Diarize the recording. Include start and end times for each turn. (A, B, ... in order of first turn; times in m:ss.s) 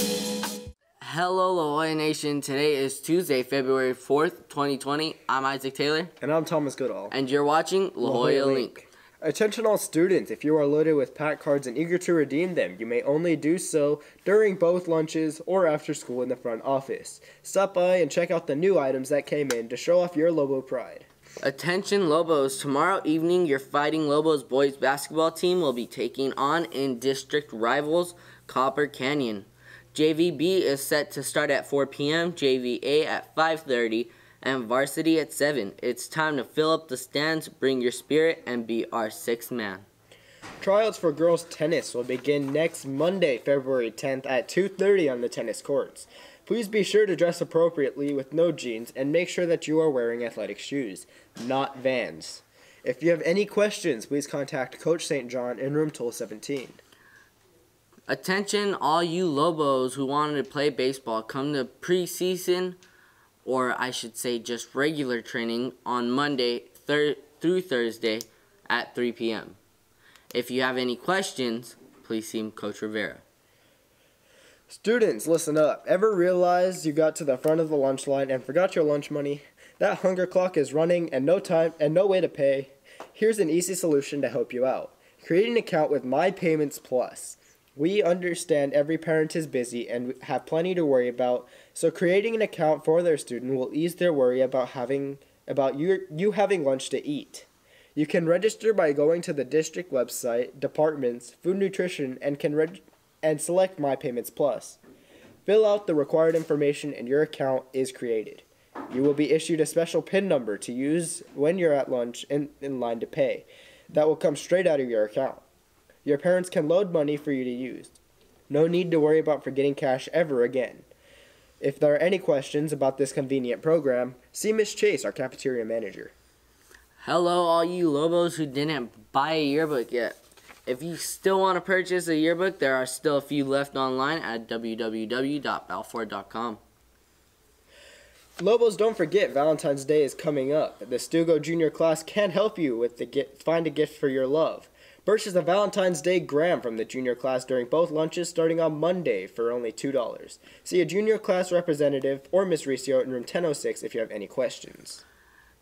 0:01.0-0:06.1 A
0:06.2-0:07.1 B
0:07.1-0:08.8 A
0:08.0-0:21.1 B
0:21.4-0:39.9 A
0:40.6-0:56.8 B
0:58.1-1:02.8 A
1:03.4-1:09.6 A
1:10.3-1:13.2 A
1:14.7-1:44.8 B
1:45.5-1:55.4 B
1:56.0-1:58.0 B
1:58.5-2:00.9 B
2:01.6-2:06.1 B
2:07.0-2:16.6 A
2:18.4-2:35.0 B